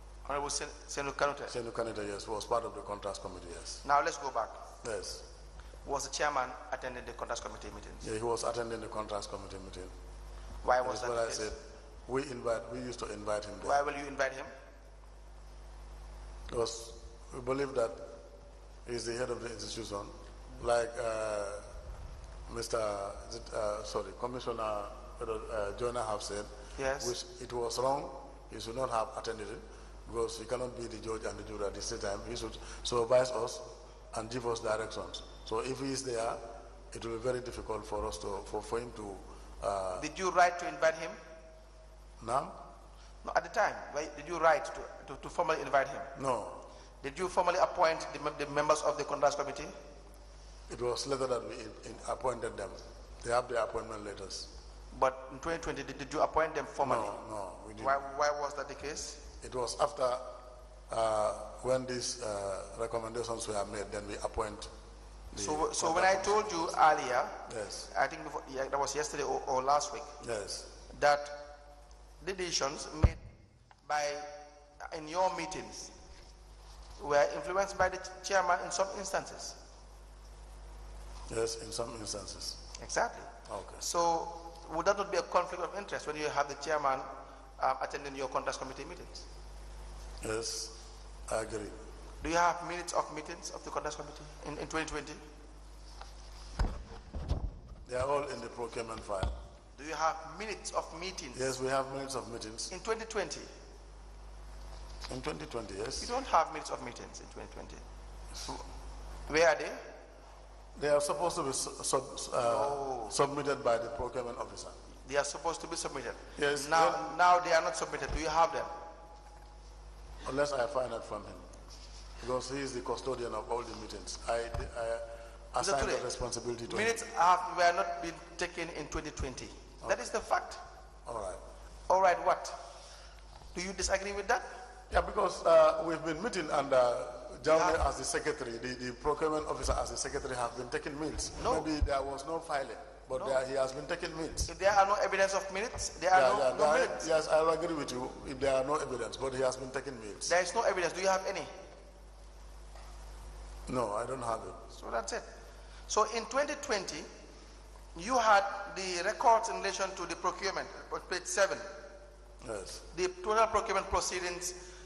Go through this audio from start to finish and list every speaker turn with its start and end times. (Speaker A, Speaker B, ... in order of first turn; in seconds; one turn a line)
Speaker A: 0.2-1.5
Speaker B: 1.5-3.8
Speaker A: 3.8-4.6
Speaker B: 4.8-5.2
Speaker A: 5.8-8.1
Speaker B: 8.0-9.9
Speaker A: 10.6-11.5
Speaker B: 10.8-13.8
Speaker A: 13.6-14.5
Speaker B: 16.5-18.0
Speaker B: 18.9-21.7
Speaker B: 22.5-36.4
Speaker A: 26.8-27.1
Speaker B: 36.9-40.0
Speaker A: 40.0-41.2
Speaker B: 42.2-42.5
Speaker A: 43.2-46.1
Speaker B: 46.1-46.6
Speaker A: 47.0-49.7
Speaker B: 50.7-54.5
Speaker A: 54.9-57.1
Speaker B: 56.8-58.0
Speaker A: 57.8-59.2
Speaker B: 59.4-60.3
Speaker B: 60.9-64.7
Speaker B: 65.3-66.7
Speaker A: 65.3-70.1
Speaker B: 67.5-67.9
Speaker B: 70.2-70.7
Speaker A: 70.9-71.3
Speaker A: 72.2-73.2
Speaker A: 73.8-74.3
Speaker A: 74.8-75.9
Speaker A: 77.0-79.6
Speaker B: 81.3-82.6
Speaker A: 82.8-89.2
Speaker B: 83.5-83.8
Speaker B: 90.2-90.8
Speaker B: 91.3-91.8
Speaker A: 92.2-95.2
Speaker B: 97.8-99.3
Speaker A: 99.8-101.5
Speaker B: 101.3-102.7
Speaker A: 102.7-103.5
Speaker B: 105.1-106.1
Speaker A: 106.0-107.8
Speaker B: 108.3-108.6
Speaker A: 109.3-109.8
Speaker B: 110.8-114.8
Speaker A: 112.4-113.1
Speaker A: 115.0-118.7
Speaker B: 116.4-117.1
Speaker B: 120.2-121.5
Speaker B: 122.2-127.0
Speaker A: 125.6-126.1
Speaker A: 126.7-130.6
Speaker B: 131.1-131.4
Speaker A: 131.9-132.5
Speaker A: 133.5-134.4
Speaker B: 134.9-144.5
Speaker A: 137.4-137.8
Speaker A: 141.4-141.7
Speaker A: 144.5-147.1
Speaker B: 146.1-150.3
Speaker A: 150.2-151.5
Speaker B: 153.7-154.6
Speaker A: 154.7-155.2
Speaker A: 155.9-157.1
Speaker A: 157.9-161.7
Speaker B: 162.4-162.8
Speaker A: 162.9-164.6